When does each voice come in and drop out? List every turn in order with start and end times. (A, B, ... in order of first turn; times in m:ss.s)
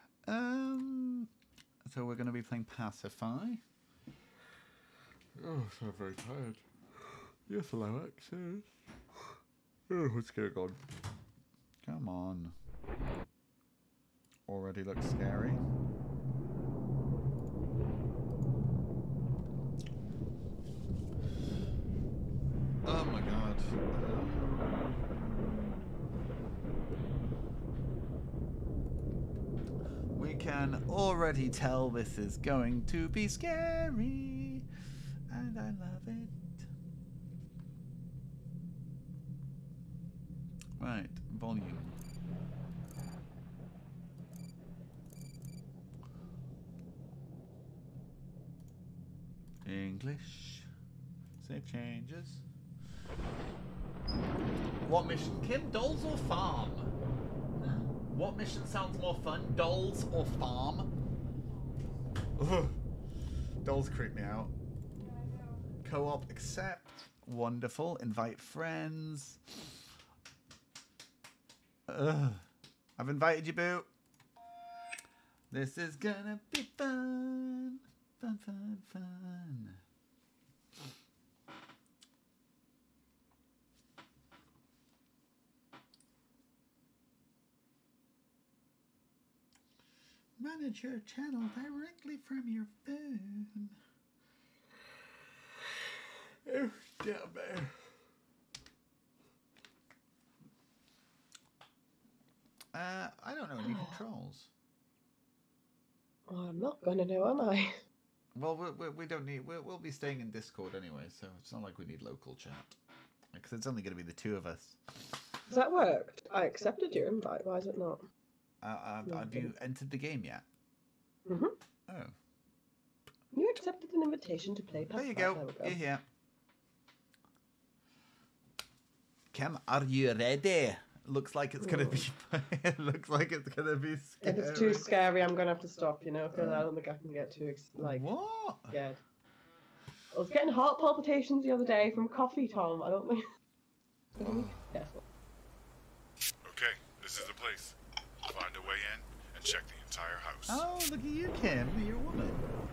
0:00.2-0:01.3 A
0:01.8-0:03.6 A
0:05.4-0:06.6 A
0:07.5-0:08.7 A
0:09.9-0:10.8 A
0:11.8-0:12.5 A
0:14.5-0:15.6 A
0:22.8-0:25.8 A
0:30.2-0:34.7 A
0:35.3-0:36.5 A
0:40.8-0:42.0 A
0:49.6-0:50.7 A
0:51.4-0:52.4 A
0:54.8-0:56.9 A
0:57.6-1:00.9 A
1:02.4-1:02.8 A
1:03.6-1:04.5 A
1:05.8-1:09.5 A
1:11.9-1:12.4 A
1:13.0-1:13.9 A
1:15.5-1:19.8 A
1:30.4-1:33.8 A
1:36.4-1:37.8 A
1:42.7-1:44.5 A
1:43.6-1:44.0 B
1:46.3-1:47.8 B
1:48.4-1:52.8 A
1:53.3-1:55.1 A
1:55.5-1:58.0 B
1:58.6-2:00.4 A
1:59.1-1:59.5 B
2:01.3-2:01.5 B
2:01.9-2:02.1 A
2:03.3-2:05.8 B
2:04.9-2:06.0 A
2:09.3-2:14.9 A
2:11.6-2:12.0 B
2:14.2-2:18.0 B
2:16.3-2:16.7 A
2:17.8-2:18.8 A
2:18.7-2:19.0 B
2:20.1-2:23.2 B
2:24.2-2:25.0 B
2:24.2-2:24.7 A
2:26.4-2:30.6 C
2:30.5-2:32.4 A